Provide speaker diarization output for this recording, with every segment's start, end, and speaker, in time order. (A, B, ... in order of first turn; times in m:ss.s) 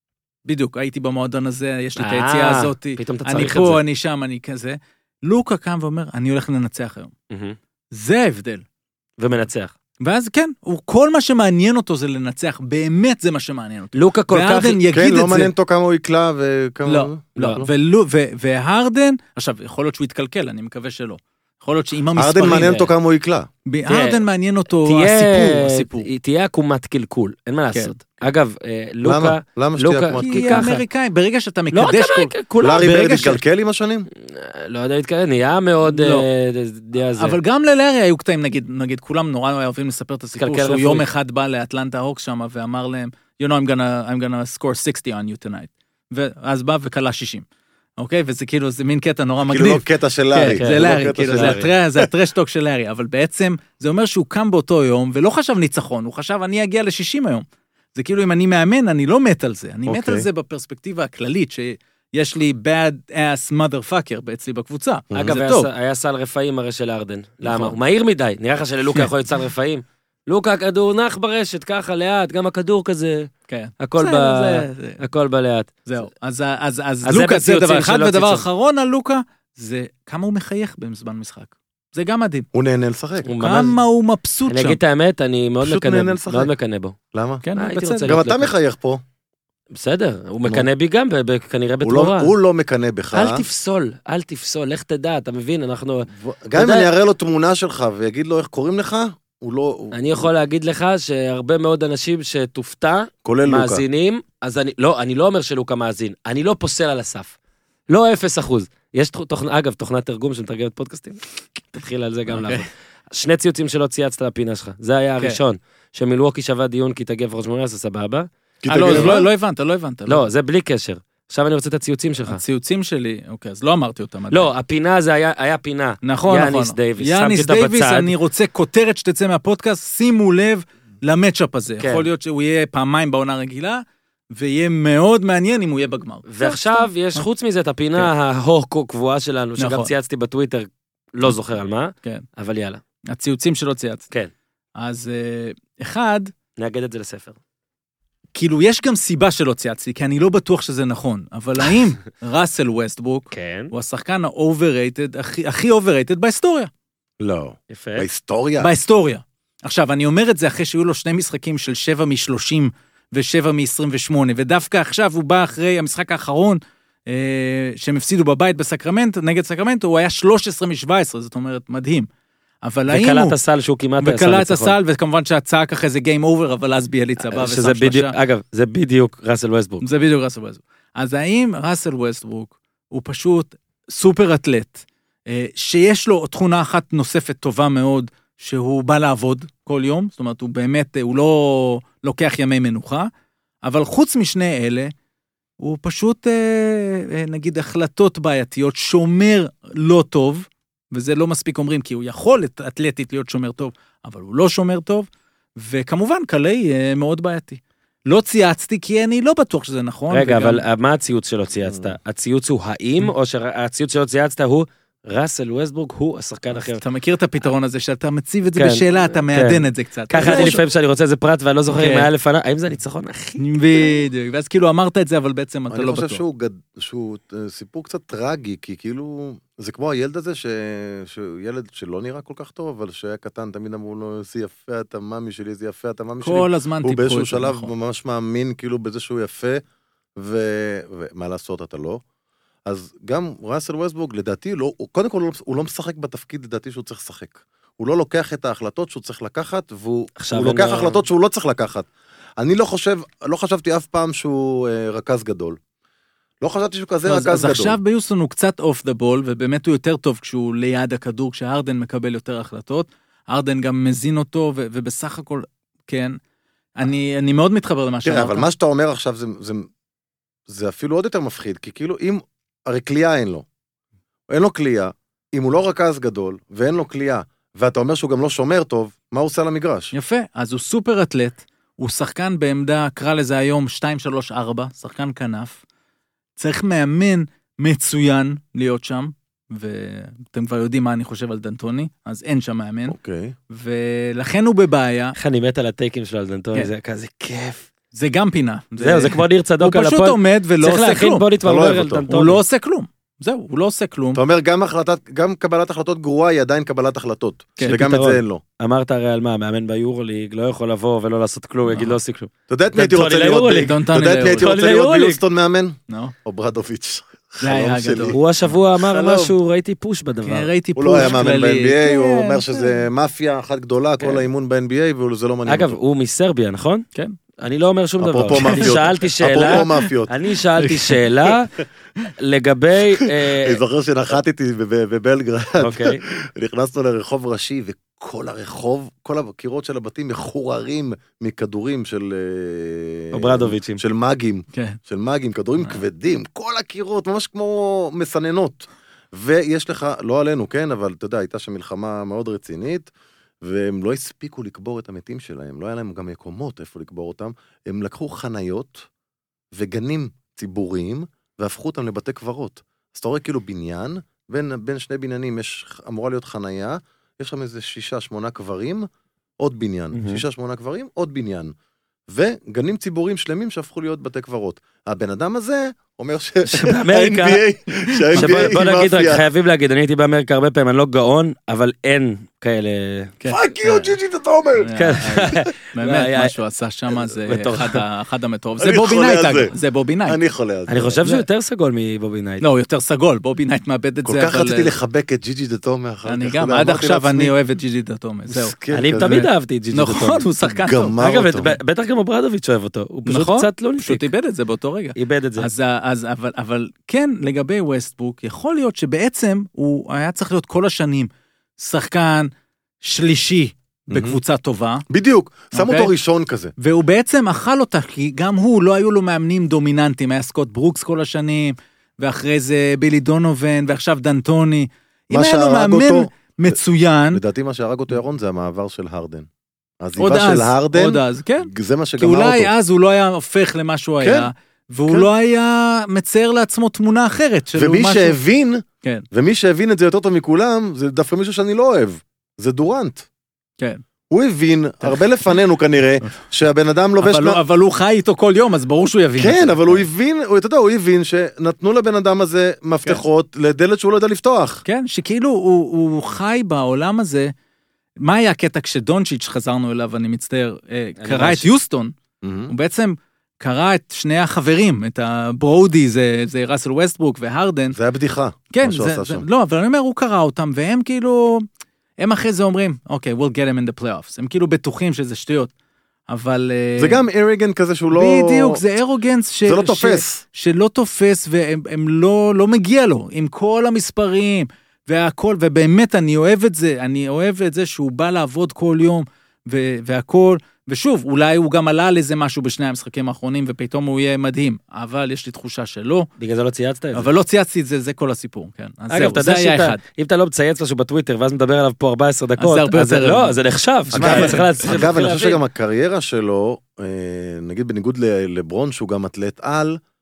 0:00.4-0:07.1 A
0:02.0-0:03.8 B
0:07.3-0:07.6 B
0:07.9-0:08.6 A
0:09.2-0:09.7 B
0:10.0-0:15.5 A
0:13.9-0:14.8 B
0:14.9-0:17.7 C
0:16.8-0:22.8 A
0:17.4-0:17.6 B
0:22.2-0:23.5 C
0:23.7-0:26.1 A
0:23.8-0:24.2 B
0:24.8-0:30.8 B
0:27.7-0:28.2 A
0:29.0-0:30.6 C
0:30.2-0:33.4 A
0:31.7-0:32.5 B
0:32.6-0:34.1 C
0:34.2-0:37.4 B
0:35.8-0:36.3 A
0:37.1-0:47.4 A
0:40.4-0:41.1 B
0:48.0-1:05.7 A
0:49.5-0:52.0 C
0:50.6-0:51.7 B
0:59.9-1:00.2 C
1:05.1-1:13.3 B
1:07.4-1:07.8 A
1:13.5-1:15.0 A
1:13.8-1:15.7 B
1:15.8-1:22.5 A
1:17.0-1:18.4 B
1:22.5-1:23.3 C
1:23.2-1:23.8 B
1:23.4-1:24.8 A
1:24.5-1:27.0 B
1:25.6-1:26.5 C
1:27.1-1:27.4 C
1:27.4-1:28.1 A
1:27.5-1:28.5 B
1:28.0-1:29.0 C
1:29.7-1:32.3 B
1:31.8-1:33.4 C
1:33.1-1:36.9 B
1:36.1-1:40.3 C
1:39.9-1:47.3 B
1:43.2-1:43.8 C
1:47.9-1:58.3 B
1:52.3-1:52.6 A
1:58.6-1:59.3 C
1:58.7-2:00.2 A
1:58.8-1:59.2 B
2:00.1-2:02.4 B
2:02.3-2:04.5 A
2:04.3-2:08.1 B
2:06.0-2:17.2 A
2:11.8-2:12.0 B
2:16.3-2:22.8 B
2:19.6-2:19.9 A
2:23.1-2:24.0 A
2:24.8-2:26.3 A
2:26.6-2:27.4 B
2:28.3-2:36.7 A
2:33.3-2:33.7 B
2:37.2-2:38.7 C
2:37.7-2:38.0 B
2:38.6-2:52.1 A
2:52.6-2:53.4 A
2:52.9-2:54.8 B
2:54.0-2:58.1 A
2:57.3-2:59.8 B
2:59.8-3:13.1 A
3:13.6-3:14.9 A
3:15.6-3:30.6 A
3:30.1-3:36.8 B
3:31.6-3:31.9 C
3:36.5-3:40.6 A
3:38.6-3:43.9 B
3:40.2-3:40.6 C
3:41.7-3:42.1 A
3:43.4-3:46.2 A
3:45.7-3:59.6 C
3:56.2-3:57.7 A
4:00.2-4:02.0 C
4:02.6-4:15.6 C
4:10.2-4:11.0 B
4:16.4-4:17.8 C
4:17.0-4:26.2 A
4:26.8-4:28.5 A
4:28.0-4:29.7 C
4:30.5-4:33.4 C
4:34.3-4:39.9 C
4:39.9-4:45.6 A
4:46.4-4:53.0 A
4:52.9-4:53.3 C
4:53.5-4:55.2 A
4:55.2-4:57.7 B
4:57.9-5:01.2 A
4:58.8-5:02.4 B
5:01.4-5:02.1 C
5:02.1-5:04.2 A
5:04.1-5:08.4 C
5:07.6-5:15.2 B
5:11.7-5:12.0 A
5:12.5-5:18.2 C
5:13.6-5:14.5 A
5:15.9-5:16.1 A
5:17.4-5:18.2 A
5:18.1-5:20.5 B
5:18.8-5:19.3 C
5:20.2-5:22.4 A
5:20.8-5:25.8 C
5:25.4-5:26.8 B
5:27.4-5:31.6 B
5:28.0-5:30.1 C
5:28.4-5:28.6 A
5:29.4-5:29.8 A
5:30.6-5:31.3 A
5:32.2-5:33.6 B
5:33.3-5:52.9 C
5:35.6-5:36.0 B
5:43.1-5:43.8 B
5:44.5-5:44.8 A
5:53.4-5:58.9 C
5:59.5-6:11.5 C
6:09.9-6:10.2 B
6:12.1-6:19.2 C
6:16.5-6:17.4 B
6:17.9-6:18.5 A
6:18.1-6:23.2 B
6:23.2-6:23.8 A
6:23.3-6:25.2 C
6:24.6-6:30.2 A
6:24.8-6:26.4 B
6:27.2-6:27.8 B
6:28.6-6:29.5 C
6:30.0-6:31.0 C
6:30.7-6:32.4 B
6:32.4-6:34.7 A
6:34.0-6:37.3 C
6:36.0-6:40.9 A
6:38.3-6:39.3 C
6:38.7-6:40.3 B
6:40.6-6:41.6 C
6:41.0-6:44.1 B
6:43.0-6:52.3 A
6:45.0-6:45.5 B
6:52.8-6:54.8 A
6:53.9-6:54.2 C
6:54.9-6:56.5 C
6:55.5-6:55.9 A
6:56.6-7:07.2 A
7:05.1-7:06.5 C
7:07.1-7:09.3 C
7:09.8-7:12.5 C
7:10.0-7:18.2 A
7:14.0-7:14.3 C
7:17.5-7:23.0 C
7:24.1-7:27.4 C
7:27.0-7:29.8 A
7:29.2-7:34.6 C
7:34.6-7:37.3 A
7:38.0-7:41.9 A
7:41.0-7:41.5 B
7:42.2-7:42.5 C
7:42.5-7:47.8 A
7:47.7-7:49.2 C
7:48.5-7:51.4 A
7:52.0-7:55.5 A
7:56.1-7:57.0 A
7:56.8-7:58.6 C
7:57.9-8:16.1 A
7:59.4-8:00.2 C
8:16.2-8:17.1 B
8:16.9-8:19.8 A
8:18.9-8:25.4 B
8:22.4-8:23.4 A
8:23.9-8:24.8 A
8:23.9-8:29.8 C